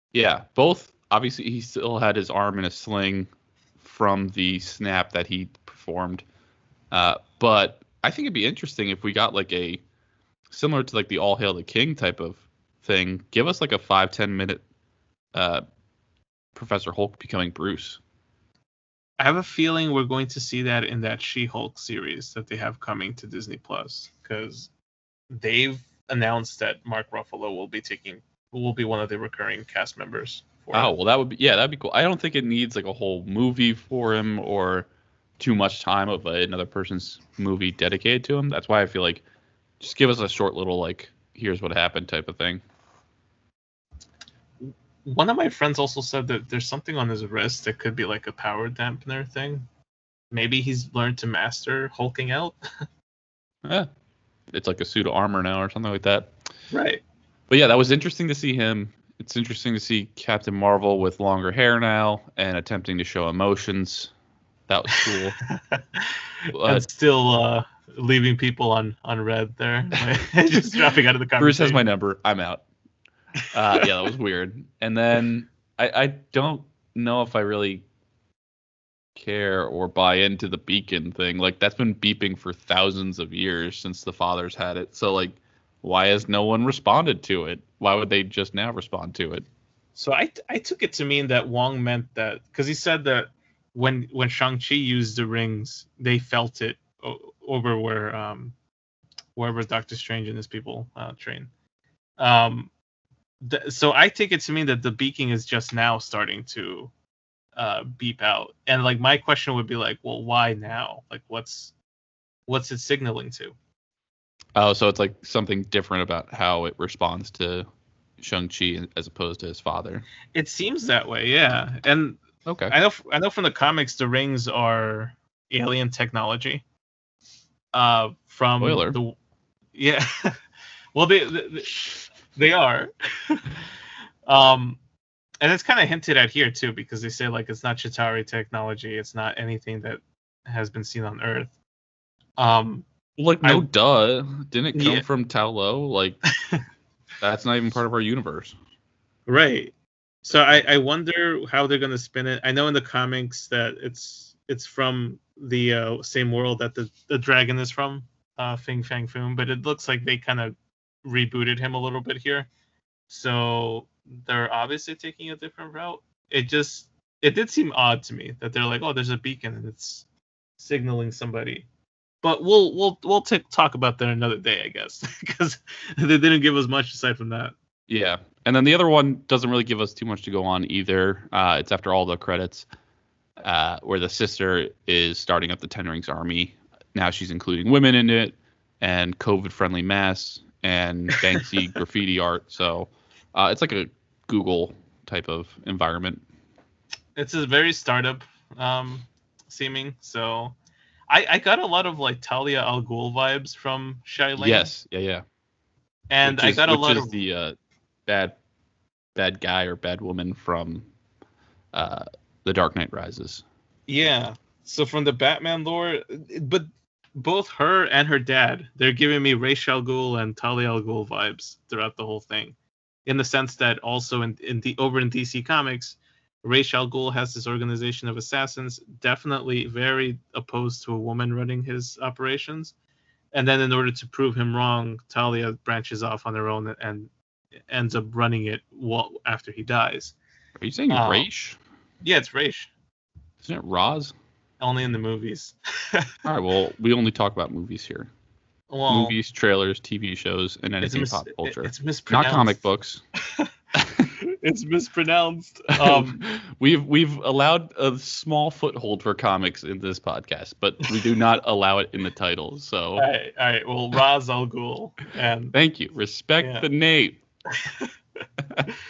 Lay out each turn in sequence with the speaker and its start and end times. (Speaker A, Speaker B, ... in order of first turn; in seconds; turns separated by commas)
Speaker A: 0.1-6.2, Speaker A: 6.9-9.8, Speaker A: 10.5-14.6, Speaker A: 15.3-15.6, Speaker A: 16.5-18.0, Speaker B: 19.2-24.7, Speaker B: 25.3-30.9, Speaker A: 30.7-39.2, Speaker A: 39.8-42.6, Speaker B: 44.6-49.6, Speaker B: 50.3-52.5, Speaker A: 54.5-56.3, Speaker B: 56.7-57.0, Speaker A: 57.5-64.1, Speaker A: 64.7-65.4, Speaker B: 65.7-71.8, Speaker A: 66.5-66.8, Speaker A: 70.3-70.6, Speaker A: 71.4-72.6, Speaker A: 73.5-77.8, Speaker A: 79.1-89.5, Speaker B: 89.9-98.5, Speaker B: 99.3-101.5, Speaker B: 102.2-102.7, Speaker B: 103.4-106.9, Speaker B: 107.5-111.7, Speaker B: 112.5-113.5, Speaker A: 114.5-117.7, Speaker A: 118.2-120.0, Speaker B: 120.3-126.6, Speaker A: 122.4-122.7, Speaker B: 127.7-129.2, Speaker A: 128.6-129.0, Speaker B: 129.7-130.3, Speaker B: 130.9-133.5, Speaker B: 134.3-134.8, Speaker B: 135.4-141.6, Speaker B: 142.4-142.9, Speaker A: 143.2-146.2, Speaker B: 144.7-145.1, Speaker A: 147.2-148.6, Speaker B: 149.3-149.7, Speaker B: 150.2-162.5, Speaker B: 163.1-170.1, Speaker B: 170.6-171.7, Speaker B: 172.2-177.6, Speaker A: 177.9-182.7, Speaker A: 183.4-196.2, Speaker B: 197.2-200.6, Speaker B: 201.1-204.7, Speaker A: 204.4-205.2, Speaker B: 206.1-207.2, Speaker A: 206.2-207.6, Speaker A: 208.1-208.4, Speaker A: 209.2-210.9, Speaker A: 211.7-213.4, Speaker B: 213.9-232.7, Speaker B: 233.3-237.1, Speaker B: 237.7-240.2, Speaker A: 240.6-241.6, Speaker B: 240.9-241.3, Speaker B: 242.0-242.7, Speaker A: 243.4-244.1, Speaker B: 244.6-246.1, Speaker A: 246.2-248.1, Speaker B: 248.7-249.2, Speaker A: 248.9-253.0, Speaker B: 250.8-252.6, Speaker A: 253.8-254.1, Speaker B: 254.1-256.2, Speaker A: 255.8-263.1, Speaker B: 263.0-265.5, Speaker A: 265.5-267.2, Speaker B: 266.4-266.7, Speaker B: 267.6-267.9